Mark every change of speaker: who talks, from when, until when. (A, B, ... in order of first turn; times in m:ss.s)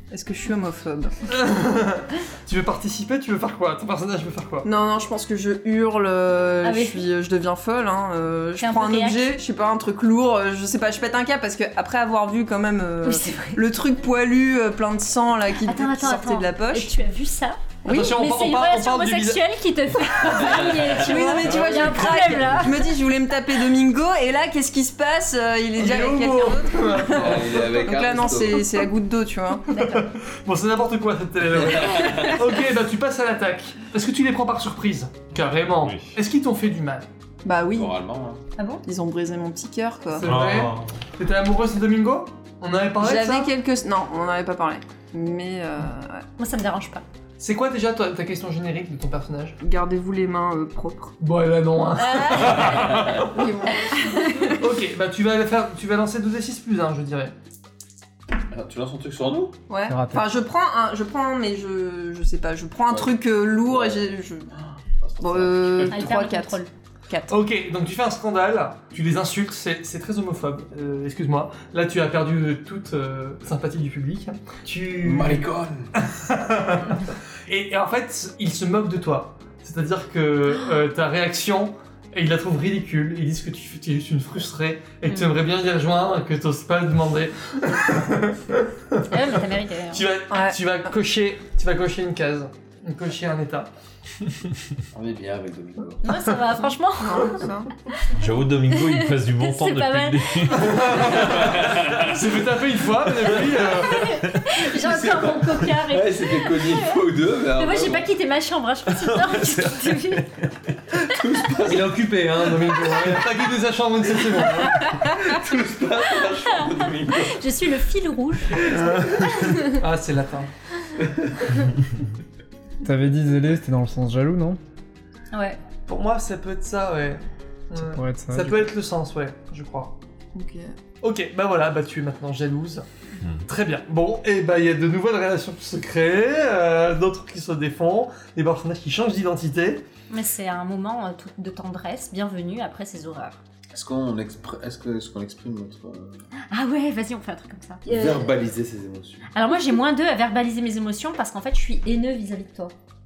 0:00.1-0:01.1 A
0:01.3-0:04.7 B
0:04.6-0:17.0 A
0:06.6-0:07.0 C
0:08.6-0:09.3 C
0:13.0-0:13.6 C
0:15.6-0:22.9 C
0:17.8-0:18.2 A
0:17.9-0:19.4 B
0:20.6-0:21.0 B
0:20.9-0:30.0 A
0:25.8-0:27.7 B
0:27.2-0:28.8 D
0:29.8-0:37.1 B
0:35.8-0:36.1 E
0:37.4-0:38.0 A
0:37.7-0:38.4 D
0:38.6-0:38.8 C
0:38.8-0:40.2 A
0:40.1-0:43.5 B
0:40.2-0:40.9 E
0:43.0-0:46.2 A
0:46.4-0:47.0 C
0:47.4-0:49.6 B
0:49.6-0:51.1 A
0:51.2-0:53.2 B
0:52.0-0:53.0 C
0:53.2-0:54.5 A
0:53.8-0:54.6 C
0:54.5-0:57.3 B
0:58.5-0:59.6 D
0:59.7-1:04.5 A
0:59.8-1:00.3 F
1:02.9-1:04.1 D
1:05.0-1:06.0 D
1:05.2-1:07.4 A
1:05.9-1:06.7 C
1:07.3-1:15.5 B
1:15.0-1:15.9 D
1:16.1-1:29.0 B
1:29.1-1:30.1 C
1:29.9-1:33.7 B
1:30.3-1:30.6 A
1:34.9-1:36.2 D
1:36.0-1:38.1 C
1:37.0-1:37.7 A
1:38.2-1:42.4 E
1:38.7-1:41.2 C
1:40.5-1:44.0 B
1:43.8-1:50.3 C
1:44.8-1:48.1 D
1:49.0-1:50.2 E
1:51.1-1:53.1 D
1:51.7-1:54.8 B
1:54.7-1:55.4 C
1:55.2-1:57.4 D
1:56.1-1:58.8 C
1:58.9-2:00.5 B
1:59.4-1:59.7 C
2:02.8-2:04.6 F
2:05.3-2:05.6 C
2:05.9-2:10.0 B
2:07.7-2:08.7 F
2:10.4-2:10.7 A
2:11.0-2:12.8 B
2:13.4-2:19.8 B
2:20.1-2:23.4 C
2:23.7-2:26.2 D
2:26.5-2:28.3 C
2:27.9-2:29.2 D
2:29.3-2:32.7 C